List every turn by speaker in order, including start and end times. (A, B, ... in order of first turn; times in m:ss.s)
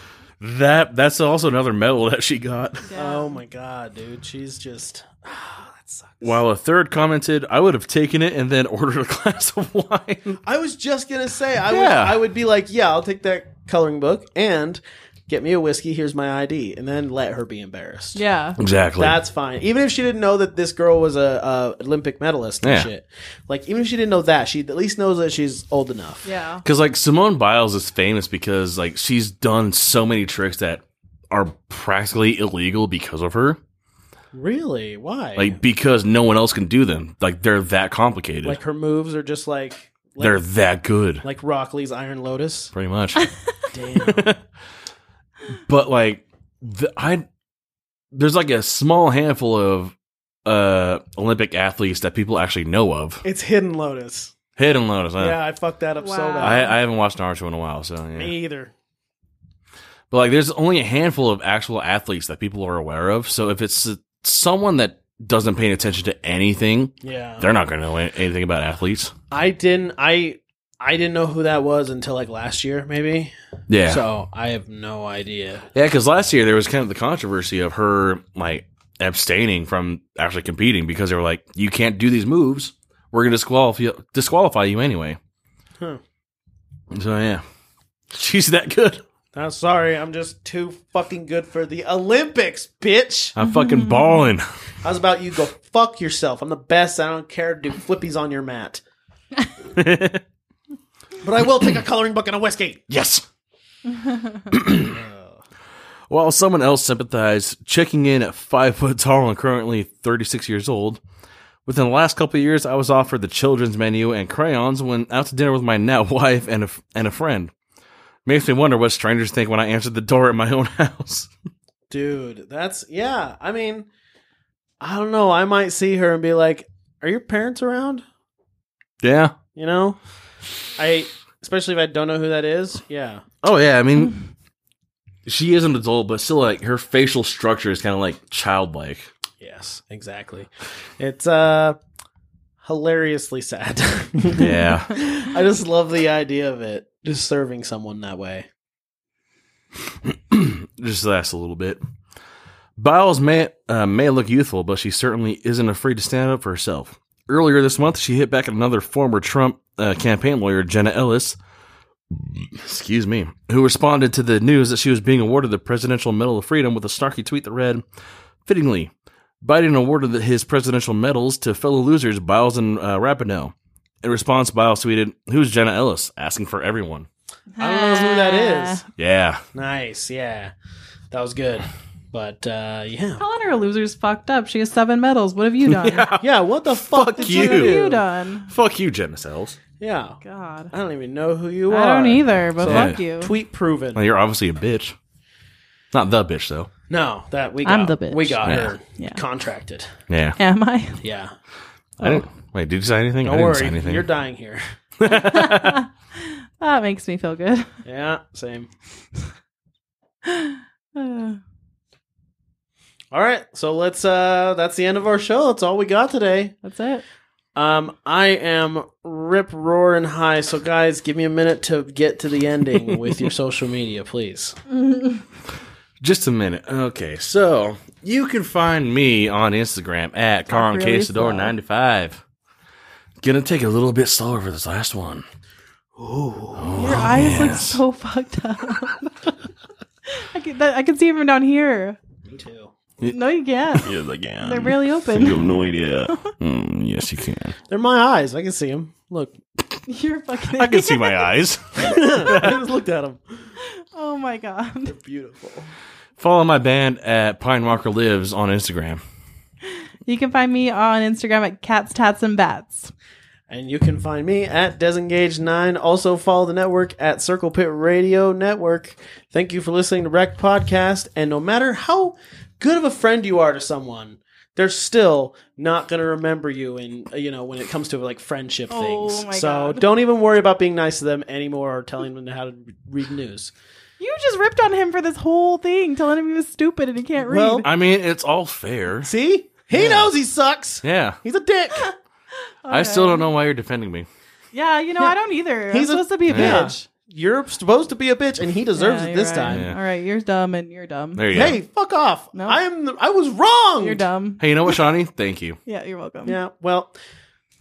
0:00.4-0:02.9 A
0:02.8-0:03.4 B
0:03.0-0:06.4 C
0:06.2-0:10.4 A
0:10.4-0:18.2 C
0:11.7-0:12.2 A
0:18.2-0:18.6 B
0:18.6-0:19.2 A
0:19.0-0:26.3 C
0:22.6-0:22.9 A
0:26.2-0:26.6 B
0:26.6-0:33.6 A
0:34.3-0:35.6 C
0:35.4-0:38.6 A
0:38.4-0:40.4 C
0:40.2-0:41.2 A
0:41.2-0:42.7 C
0:42.7-0:43.3 A
0:43.7-0:44.4 C
0:44.0-0:44.4 A
0:45.7-0:47.2 A
0:48.1-0:49.9 A
0:50.4-0:53.2 A
0:53.2-0:54.4 C
0:54.6-0:55.4 A
0:55.2-0:56.7 C
0:56.0-0:56.8 B
0:56.4-0:58.3 A
0:58.2-0:58.7 C
1:00.1-1:09.1 A
1:07.0-1:07.5 C
1:09.3-1:13.3 C
1:13.7-1:14.0 A
1:13.8-1:15.7 C
1:15.7-1:25.2 A
1:26.9-1:27.4 A
1:28.1-1:29.0 A
1:29.3-1:33.4 C
1:33.4-1:34.5 A
1:34.8-1:38.8 C
1:39.8-1:40.2 A
1:41.2-1:42.8 C
1:42.9-1:43.2 A
1:44.0-1:44.3 B
1:44.5-1:45.0 A
1:44.8-1:45.4 C
1:46.1-1:51.0 A
1:51.7-1:57.5 A
1:58.3-2:01.3 A
2:01.9-2:03.9 C
2:04.8-2:08.0 C
2:09.0-2:09.3 A
2:09.6-2:10.0 C
2:10.8-2:13.2 C
2:13.4-2:14.2 A
2:15.3-2:19.1 A
2:19.4-2:21.8 C
2:22.6-2:28.5 C
2:24.4-2:25.0 A
2:30.0-2:31.8 A
2:32.8-2:41.4 A
2:42.5-2:47.8 A
2:48.5-2:48.9 A
2:49.4-2:57.1 A
2:57.6-2:58.8 B
2:57.6-2:58.8 C
2:59.0-2:59.4 A
2:59.5-3:00.5 C
3:01.1-3:03.2 C
3:03.2-3:06.1 B
3:05.7-3:07.9 A
3:06.2-3:08.0 C
3:07.2-3:08.5 B
3:08.5-3:09.6 A
3:09.8-3:10.2 C
3:10.2-3:10.7 B
3:10.7-3:14.0 C
3:11.7-3:13.3 B
3:12.6-3:13.0 A
3:13.9-3:15.0 A
3:15.9-3:16.7 A
3:16.9-3:20.0 C
3:17.6-3:18.5 B
3:18.4-3:18.7 A
3:20.1-3:20.4 A
3:20.4-3:21.0 B
3:21.0-3:21.3 C
3:22.0-3:24.1 A
3:23.2-3:24.6 C
3:25.0-3:25.8 A
3:25.1-3:27.7 B
3:27.8-3:28.7 C
3:30.2-3:31.4 B
3:33.1-3:36.6 C
3:36.6-3:37.0 B
3:37.6-3:44.6 C
3:44.9-3:45.2 B
3:46.0-3:52.2 A
3:50.5-3:51.5 B
3:53.2-3:55.2 A
3:56.0-3:57.1 C
3:56.6-3:57.8 A
3:56.8-3:59.0 B
4:00.1-4:02.0 B
4:02.2-4:02.7 C
4:03.0-4:05.5 B
4:03.8-4:07.6 A
4:06.1-4:06.3 B
4:07.7-4:09.4 C
4:09.9-4:11.3 B
4:10.5-4:12.6 A
4:11.8-4:13.2 C
4:13.6-4:15.0 B
4:14.8-4:15.7 C
4:16.2-4:19.0 A
4:20.1-4:22.9 B
4:23.5-4:43.5 C
4:38.7-4:39.8 B
4:44.0-4:47.7 B
4:47.2-4:47.7 C
4:47.6-4:49.1 A
4:49.0-4:51.9 C
4:49.7-4:50.1 A
4:50.8-4:51.2 A
4:52.6-4:53.3 B
4:52.7-4:54.1 A
4:54.5-4:56.9 B
4:55.7-4:59.7 C
4:56.3-4:56.7 A
4:58.8-5:01.5 B
4:59.4-4:59.8 A
5:01.2-5:01.6 A
5:01.3-5:04.0 C
5:02.3-5:02.6 B
5:03.8-5:04.7 B
5:04.4-5:05.6 A
5:05.7-5:06.4 B
5:06.2-5:07.0 C